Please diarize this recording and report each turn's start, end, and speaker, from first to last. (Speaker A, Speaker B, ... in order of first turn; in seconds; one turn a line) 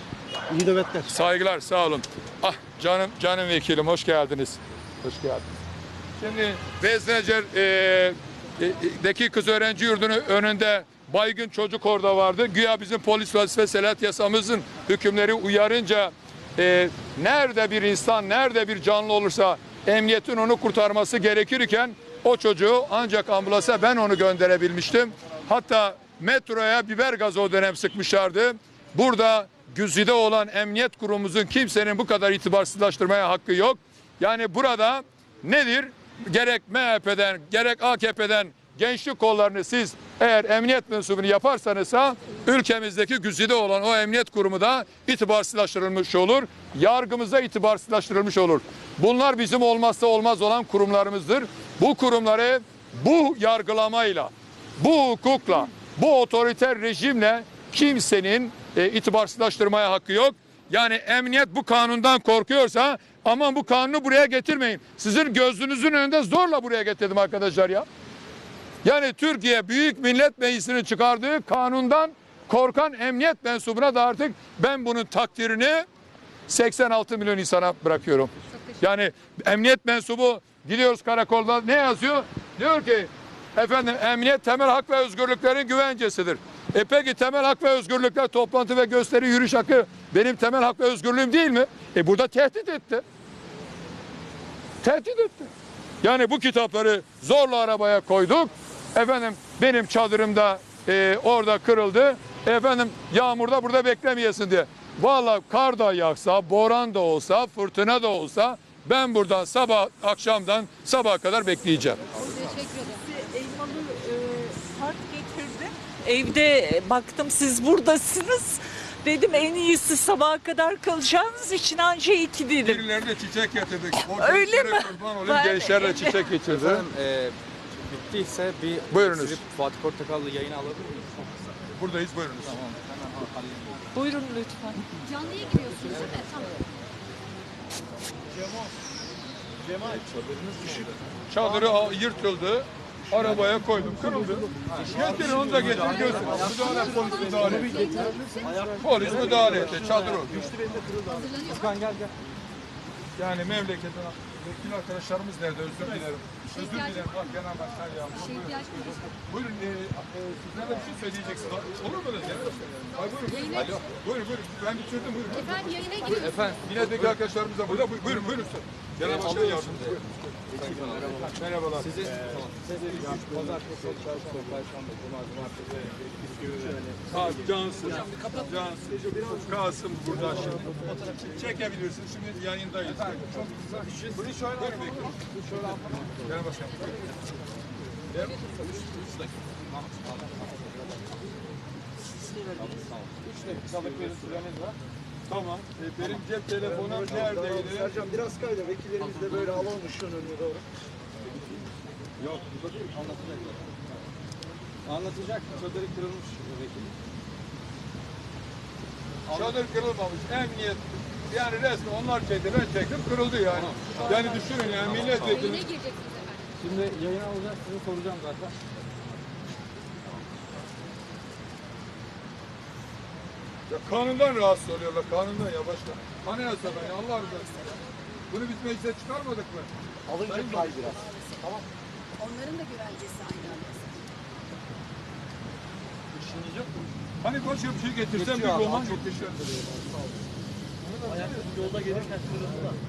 Speaker A: 0.5-0.8
Speaker B: 1.0-5.5
Speaker B: 6.2-67.8
Speaker B: 68.8-75.8
Speaker B: 76.5-93.0
Speaker C: 78.5-78.8
Speaker B: 94.8-95.5
Speaker B: 96.0-112.0
Speaker C: 112.1-113.0
Speaker D: 113.0-122.8
Speaker B: 122.6-126.8
Speaker D: 124.0-126.3
Speaker E: 126.5-131.3
Speaker B: 128.9-129.4
Speaker B: 131.7-132.6
Speaker E: 132.4-133.9
Speaker D: 133.9-135.0
Speaker C: 135.0-136.6
Speaker E: 135.9-136.3
Speaker E: 139.7-140.9
Speaker B: 141.3-148.1
Speaker E: 144.8-146.8
Speaker C: 145.7-148.7
Speaker A: 147.4-150.9
Speaker E: 148.4-149.7
Speaker B: 148.8-150.6
Speaker C: 150.9-151.8
Speaker E: 151.7-152.1
Speaker B: 153.2-158.7
Speaker C: 156.5-157.2
Speaker C: 158.1-159.1
Speaker B: 159.2-165.7
Speaker C: 163.2-163.8
Speaker C: 165.3-166.5
Speaker E: 166.1-167.1
Speaker B: 166.5-170.0
Speaker E: 169.0-169.9
Speaker E: 170.5-177.2
Speaker B: 171.2-171.9
Speaker A: 173.2-173.6
Speaker B: 177.1-185.1
Speaker E: 182.9-186.1
Speaker B: 186.2-187.0
Speaker B: 188.1-188.4
Speaker E: 188.8-191.0
Speaker E: 192.3-194.5
Speaker B: 193.3-194.7
Speaker B: 195.3-198.0
Speaker A: 196.9-200.6
Speaker E: 199.2-199.6
Speaker E: 202.2-203.7
Speaker E: 204.8-206.9
Speaker B: 209.3-215.6
Speaker E: 213.5-214.1
Speaker C: 214.2-216.5
Speaker E: 214.7-215.5
Speaker E: 216.6-218.5
Speaker B: 223.7-230.9
Speaker A: 230.1-231.6
Speaker C: 232.2-234.0
Speaker E: 236.3-236.6
Speaker B: 237.2-239.4
Speaker A: 238.6-239.0
Speaker B: 240.8-241.5
Speaker A: 241.7-242.3